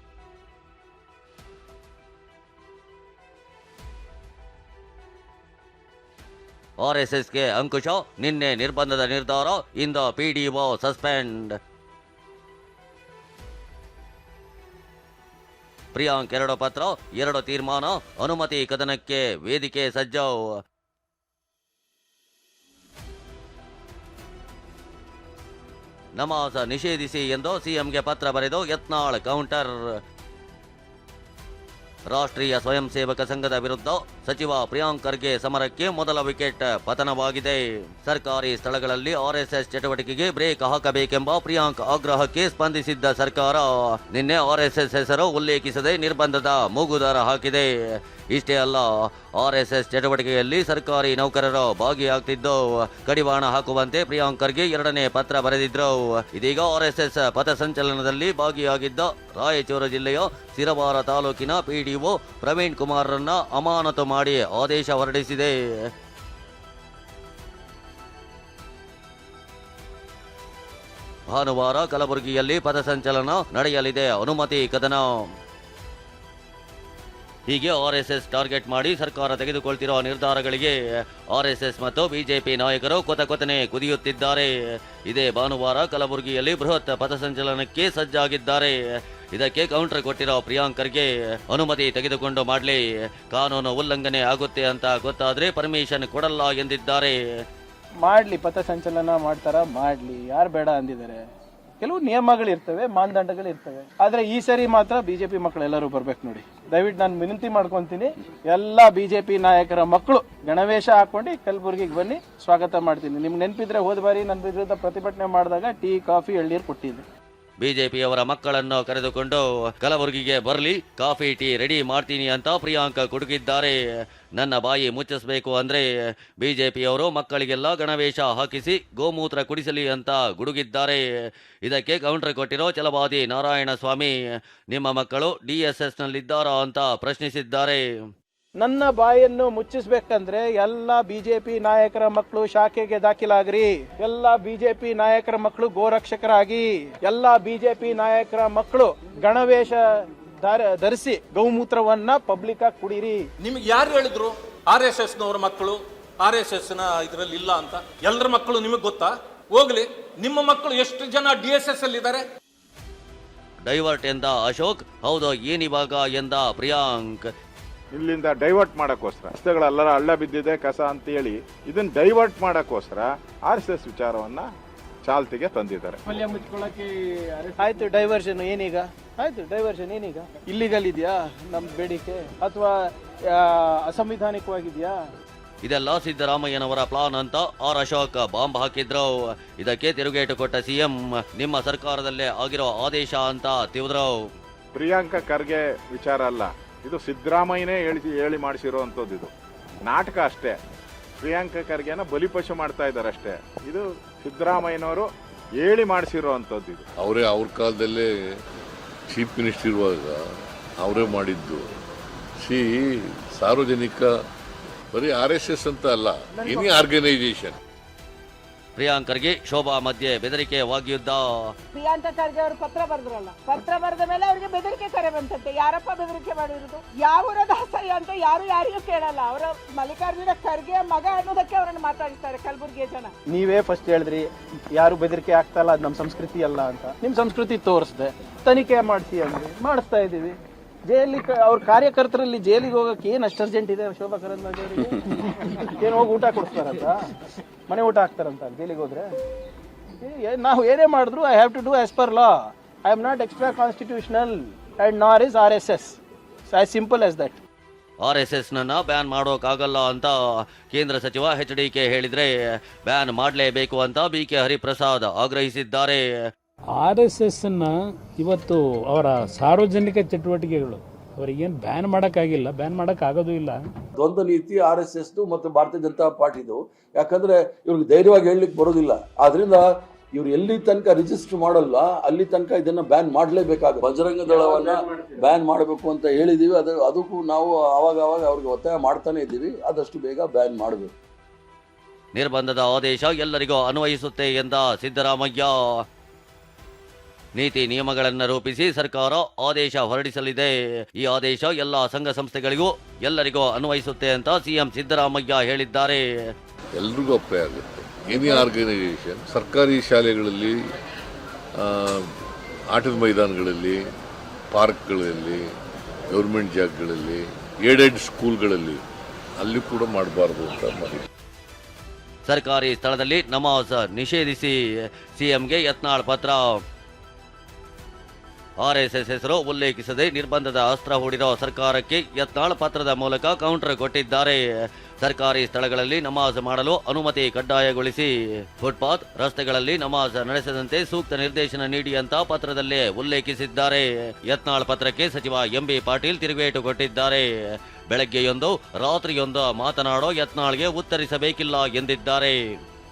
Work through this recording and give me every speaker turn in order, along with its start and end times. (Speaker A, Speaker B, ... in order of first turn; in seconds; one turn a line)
Speaker A: 6.8-11.5
Speaker A: 15.9-20.4
Speaker A: 26.2-29.7
Speaker A: 32.1-47.7
Speaker A: 48.3-65.5
Speaker A: 71.3-75.1
Speaker A: 77.5-80.7
Speaker A: 81.3-84.5
Speaker A: 85.1-88.7
Speaker A: 89.3-97.2
Speaker B: 98.0-101.2
Speaker B: 101.8-117.0
Speaker A: 117.6-123.8
Speaker A: 124.3-125.8
Speaker A: 126.4-131.0
Speaker A: 131.6-134.1
Speaker A: 134.7-137.8
Speaker B: 138.6-149.8
Speaker B: 150.4-153.2
Speaker C: 153.6-154.3
Speaker C: 154.9-155.6
Speaker C: 156.3-159.0
Speaker C: 160.4-162.2
Speaker A: 163.7-167.3
Speaker D: 167.9-174.5
Speaker D: 175.0-176.0
Speaker B: 177.6-182.7
Speaker B: 183.3-184.9
Speaker A: 185.6-194.1
Speaker D: 194.7-199.3
Speaker D: 199.9-200.6
Speaker D: 201.2-205.1
Speaker D: 205.6-206.8
Speaker E: 207.0-208.1
Speaker E: 209.1-210.2
Speaker E: 210.8-211.6
Speaker E: 212.4-212.8
Speaker E: 213.3-214.1
Speaker E: 214.9-217.6
Speaker B: 216.3-216.8
Speaker A: 218.8-221.2
Speaker F: 221.7-233.1
Speaker B: 233.3-240.3
Speaker B: 240.9-247.1
Speaker B: 247.7-249.1
Speaker B: 250.0-257.4
Speaker A: 258.0-260.1
Speaker A: 260.7-262.3
Speaker A: 262.8-266.0
Speaker G: 266.7-273.6
Speaker H: 274.0-279.6
Speaker H: 280.1-290.9
Speaker A: 292.1-295.6
Speaker A: 297.4-306.0
Speaker E: 306.8-310.5
Speaker E: 311.6-312.0
Speaker E: 312.7-313.8
Speaker E: 314.5-315.4
Speaker E: 316.1-318.8
Speaker E: 319.4-321.1
Speaker A: 322.3-324.5
Speaker A: 325.1-326.6
Speaker A: 328.6-334.4
Speaker A: 335.0-347.2
Speaker A: 347.9-352.4